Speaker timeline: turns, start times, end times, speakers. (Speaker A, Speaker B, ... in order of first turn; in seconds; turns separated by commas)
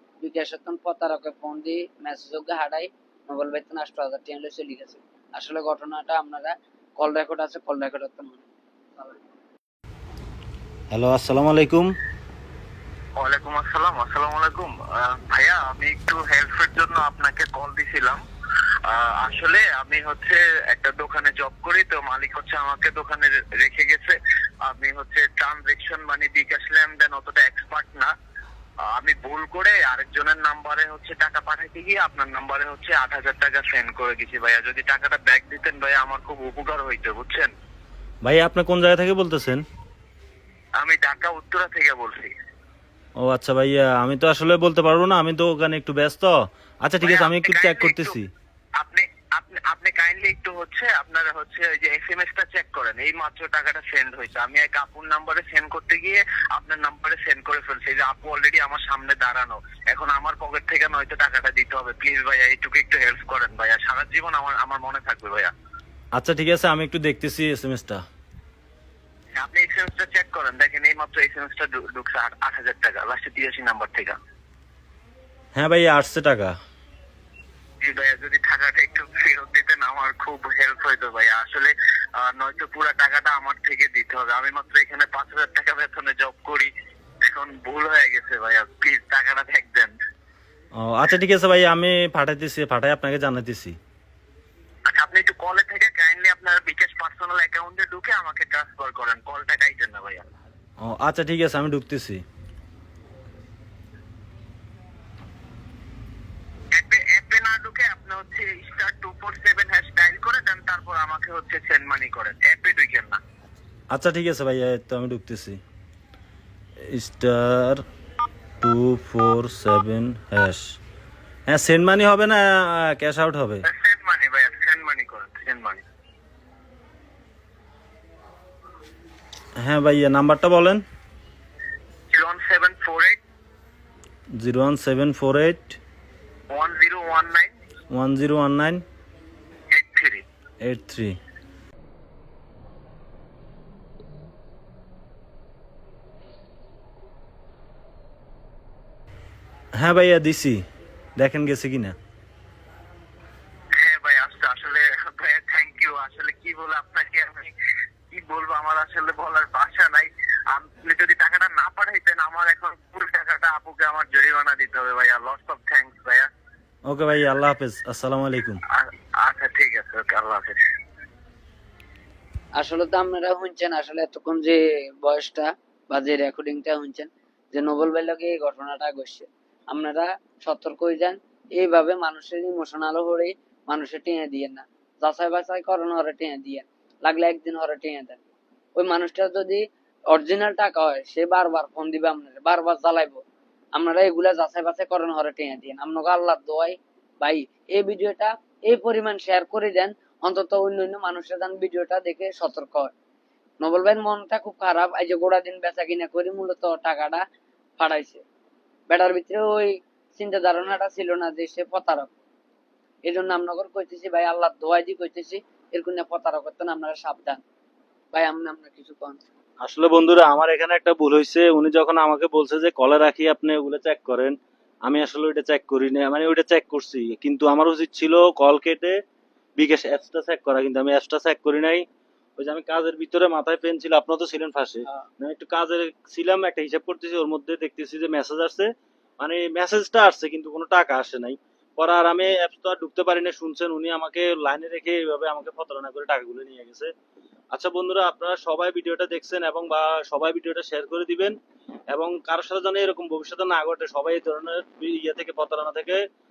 Speaker A: 0.2-8.4, Speaker B: 10.9-11.9, Speaker C: 13.2-18.2, Speaker C: 18.9-28.1, Speaker C: 28.9-37.5, Speaker B: 38.2-39.6, Speaker C: 40.8-42.3, Speaker B: 43.2-48.3, Speaker C: 47.0-48.2, Speaker C: 48.8-65.5, Speaker B: 66.1-68.0, Speaker C: 69.3-74.2, Speaker B: 75.5-76.5, Speaker C: 77.8-86.7, Speaker C: 87.3-89.9, Speaker B: 90.8-93.8, Speaker C: 94.9-100.2, Speaker B: 100.8-102.2, Speaker C: 106.7-113.2, Speaker B: 113.9-115.6, Speaker B: 116.8-117.8, Speaker B: 118.6-120.8, Speaker B: 121.5-123.6, Speaker C: 123.6-125.8, Speaker B: 129.6-130.8, Speaker C: 132.1-133.2, Speaker B: 134.4-135.8, Speaker C: 136.5-137.5, Speaker B: 137.9-138.8, Speaker C: 139.7-140.2, Speaker B: 140.6-141.2, Speaker B: 149.8-150.6, Speaker B: 151.2-151.9, Speaker C: 153.8-157.5, Speaker C: 158.1-166.3, Speaker B: 166.9-168.6, Speaker C: 168.7-170.5, Speaker A: 172.6-188.2, Speaker A: 188.8-193.2, Speaker A: 193.7-202.9, Speaker A: 203.6-207.2, Speaker A: 207.8-208.2, Speaker A: 208.9-212.1, Speaker A: 213.1-217.4, Speaker A: 218.1-219.2, Speaker B: 219.6-229.0, Speaker B: 229.6-231.8, Speaker B: 232.4-246.9, Speaker B: 247.5-251.3, Speaker B: 251.9-256.0